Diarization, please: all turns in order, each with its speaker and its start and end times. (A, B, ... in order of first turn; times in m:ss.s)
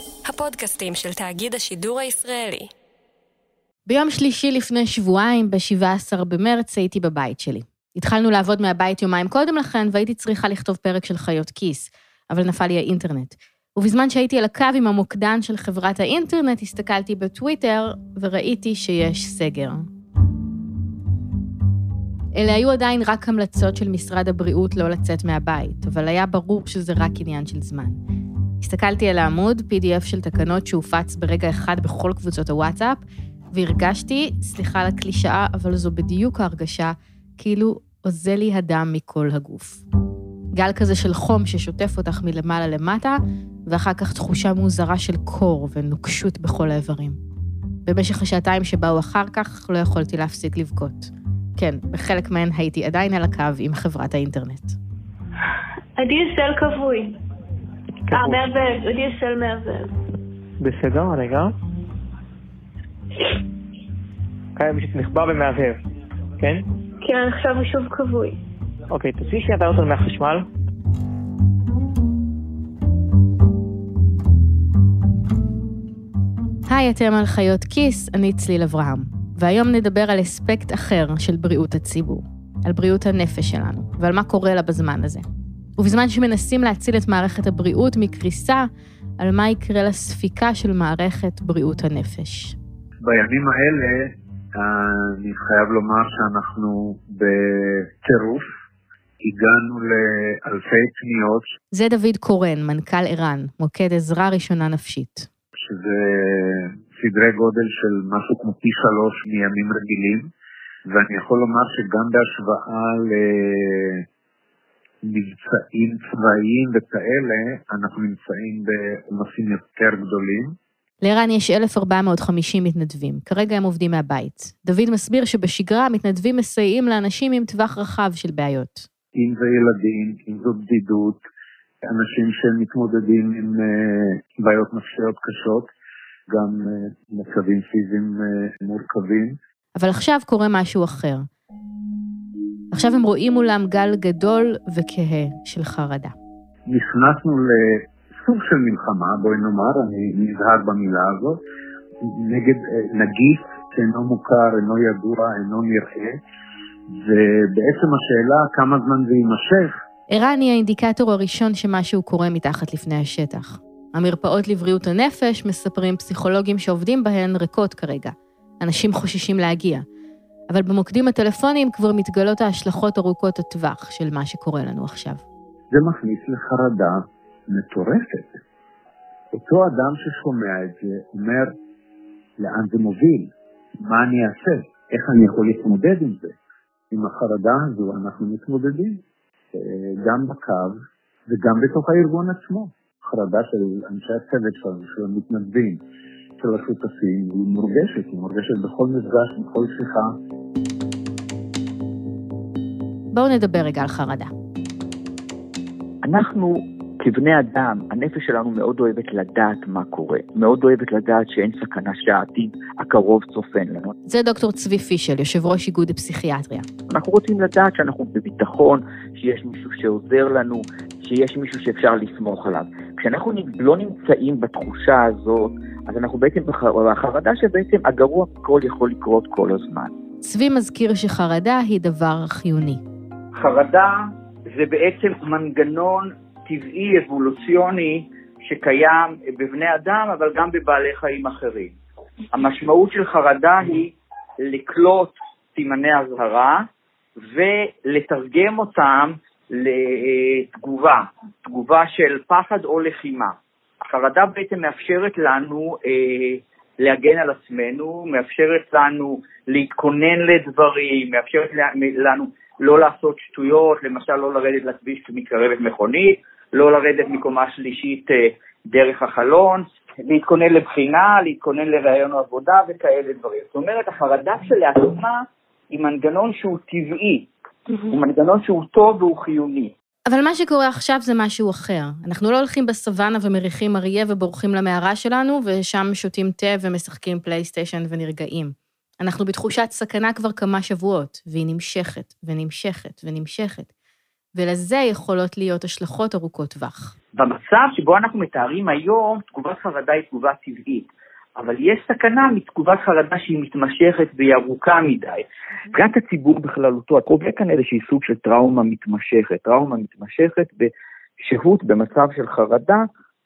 0:00.3-0:02.7 A
0:03.9-0:19.9 B
0:22.3-0:28.0 B
0:28.6-0:33.0 B
0:33.5-0:39.8 B
0:40.5-0:47.2 B
0:47.9-0:54.8 B
0:56.0-0:57.2 C
0:58.1-0:58.4 D
0:58.1-0:59.9 C
1:00.6-1:01.5 D
1:04.6-1:05.8 D
1:06.4-1:06.7 D
1:07.0-1:08.4 C
1:08.9-1:10.5 D
1:16.7-1:25.2 B
1:25.8-1:28.7 B
1:29.2-1:32.6 B
1:33.0-1:38.4 E
1:39.2-1:41.4 E
1:41.7-1:45.3 B
1:45.6-1:50.3 E
1:50.9-1:54.0 E
1:55.1-2:00.6 E
2:01.0-2:08.9 B
2:09.2-2:11.2 E
2:11.9-2:15.7 E
2:16.3-2:19.4 E
2:19.8-2:21.2 B
2:22.7-2:26.2 B
2:26.7-2:31.4 E
2:32.0-2:36.2 E
2:37.0-2:39.7 E
2:40.1-2:49.8 B
2:50.5-2:55.2 B
2:55.7-2:58.4 E
2:59.3-3:01.5 E
3:02.4-3:03.3 E
3:03.8-3:06.4 E
3:06.9-3:09.0 E
3:09.5-3:10.8 E
3:11.3-3:15.8 E
3:16.4-3:20.2 E
3:23.1-3:24.3 B
3:26.0-3:33.9 F
3:34.1-3:36.6 B
3:36.9-3:49.9 F
3:50.2-3:52.8 B
3:53.4-4:01.8 F
4:02.3-4:06.6 F
4:07.2-4:13.4 F
4:13.9-4:37.3 F
4:37.9-4:39.7 F
4:40.1-4:53.7 B
4:54.3-4:56.9 B
4:57.2-5:10.7 F
5:11.2-5:12.9 F